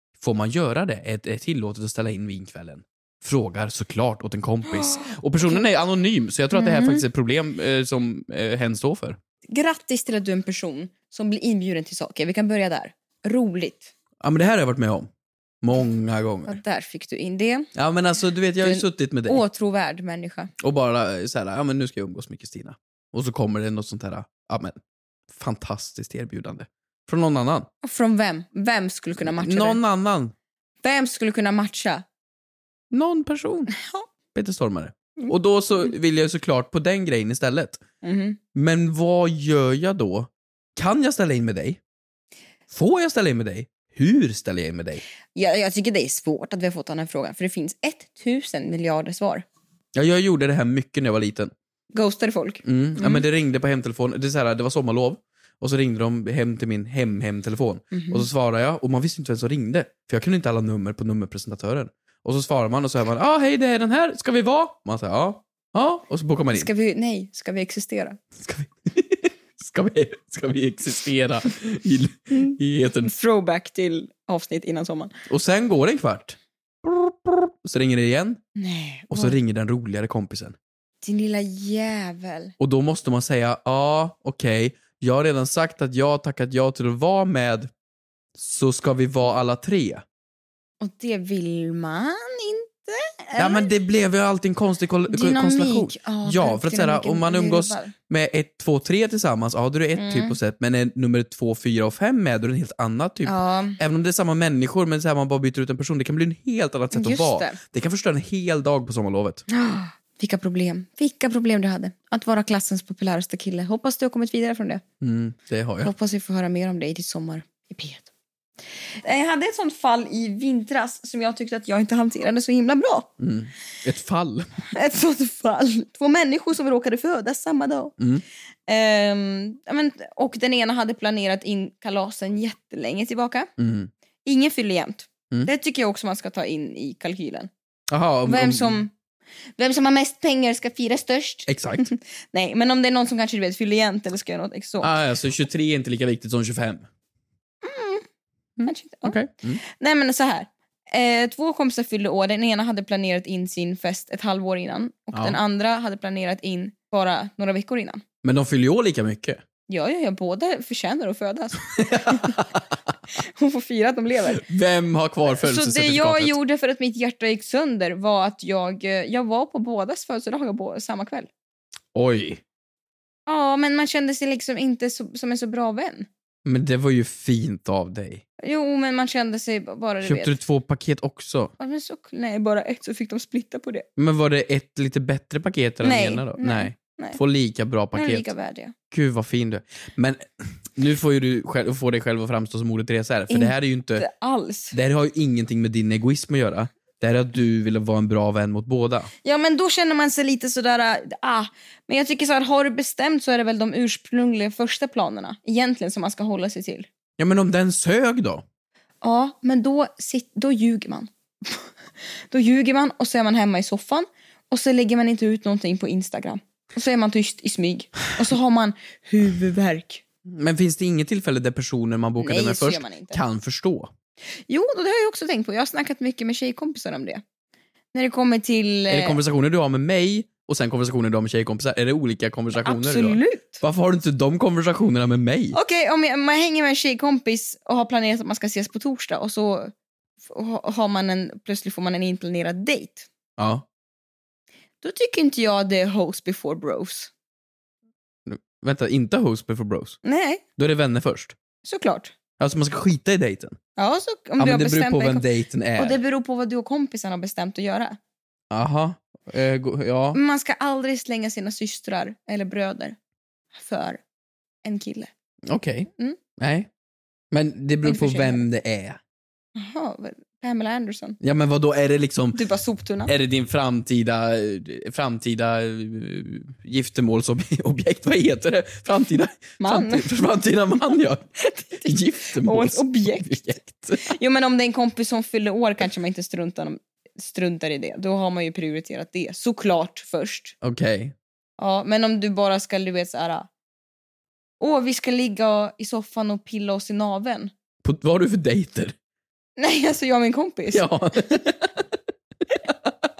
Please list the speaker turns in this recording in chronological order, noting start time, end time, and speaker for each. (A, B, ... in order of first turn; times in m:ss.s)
0:00.2-0:09.2 A
0:04.7-0:05.6 B
0:06.5-0:07.0 B
0:09.5-0:13.9 B
0:14.2-0:15.1 A
0:15.6-0:16.6 A
0:16.5-0:17.7 B
0:17.7-0:19.4 A
0:18.6-0:20.5 B
0:20.6-0:24.8 A
0:25.3-0:27.7 A
0:27.8-0:29.8 B
0:29.2-0:30.3 A
0:30.8-0:32.0 B
0:32.9-0:33.7 A
0:33.7-0:34.1 B
0:34.3-0:37.8 A
0:38.0-0:38.4 B
0:38.5-0:41.8 A
0:42.7-0:45.0 A
0:45.3-0:49.4 B
0:49.9-0:51.5 A
0:51.9-0:53.2 B
0:52.6-1:06.7 A
0:57.9-0:58.2 B
1:06.5-1:08.2 B
1:08.4-1:13.1 A
1:12.4-1:15.1 B
1:15.3-1:18.4 A
1:18.6-1:19.4 B
1:19.1-1:20.6 A
1:21.0-1:22.5 B
1:22.6-1:27.7 A
1:28.4-1:30.0 A
1:30.8-1:33.7 B
1:33.4-1:49.4 A
1:35.1-1:37.9 B
1:40.0-1:40.4 B
1:43.2-1:43.8 B
1:46.9-1:47.6 B
1:49.5-1:54.8 B
1:55.0-1:55.9 A
1:55.8-1:58.1 B
1:59.0-2:03.1 B
2:03.2-2:04.5 A
2:04.7-2:07.9 B
2:08.7-2:13.5 B
2:13.6-2:13.9 A
2:14.2-2:17.5 B
2:17.9-2:18.8 A
2:18.2-2:18.9 B
2:19.6-2:24.9 B
2:21.5-2:21.9 A
2:24.8-2:26.8 A
2:27.6-2:28.0 B
2:28.6-2:29.6 A
2:28.6-2:38.0 B
2:35.1-2:35.4 A
2:38.2-2:39.4 A
2:39.7-2:42.4 B
2:41.7-2:42.6 A
2:43.1-2:44.4 B
2:44.3-2:46.4 A
2:45.4-2:51.3 B
2:51.9-2:52.4 A
2:53.3-2:56.1 B
2:56.4-2:58.2 A
2:58.4-3:00.4 B
3:00.0-3:01.5 A
3:01.6-3:03.8 B
3:04.0-3:08.3 A
3:05.8-3:07.2 B
3:07.9-3:08.7 B
3:08.9-3:14.0 A
3:13.3-3:14.8 B
3:14.7-3:19.1 A
3:19.2-3:26.9 B
3:27.2-3:28.4 A
3:29.0-3:31.7 B
3:32.3-3:40.0 B
3:40.3-3:43.9 A
3:42.2-3:43.2 B
3:44.5-3:47.2 B
3:47.9-3:49.2 B
3:48.9-3:55.6 A
3:52.6-3:53.6 B
3:55.5-3:59.7 B
4:00.3-4:03.1 B
4:03.4-4:03.6 A
4:04.8-4:07.1 B
4:08.2-4:10.0 A
4:10.0-4:10.4 B
4:10.6-4:11.4 A
4:11.6-4:12.1 B
4:12.4-4:13.6 A
4:13.8-4:18.0 B
4:14.4-4:16.0 A
4:18.5-4:20.2 A
4:20.1-4:23.0 B
4:23.5-4:24.0 B
4:24.6-4:25.1 B
4:25.5-4:26.7 A
4:27.3-4:29.0 A
4:27.8-4:28.4 B
4:29.6-4:31.2 B
4:31.2-4:32.4 A
4:32.3-4:33.1 B
4:33.0-4:41.2 A
4:39.6-4:40.1 B
4:41.4-4:50.5 B
4:41.8-4:44.1 A
4:50.6-4:51.1 A
4:51.6-4:53.5 B
4:54.6-4:57.5 B
4:57.8-4:58.9 A
4:59.6-5:01.4 B
5:00.7-5:01.8 A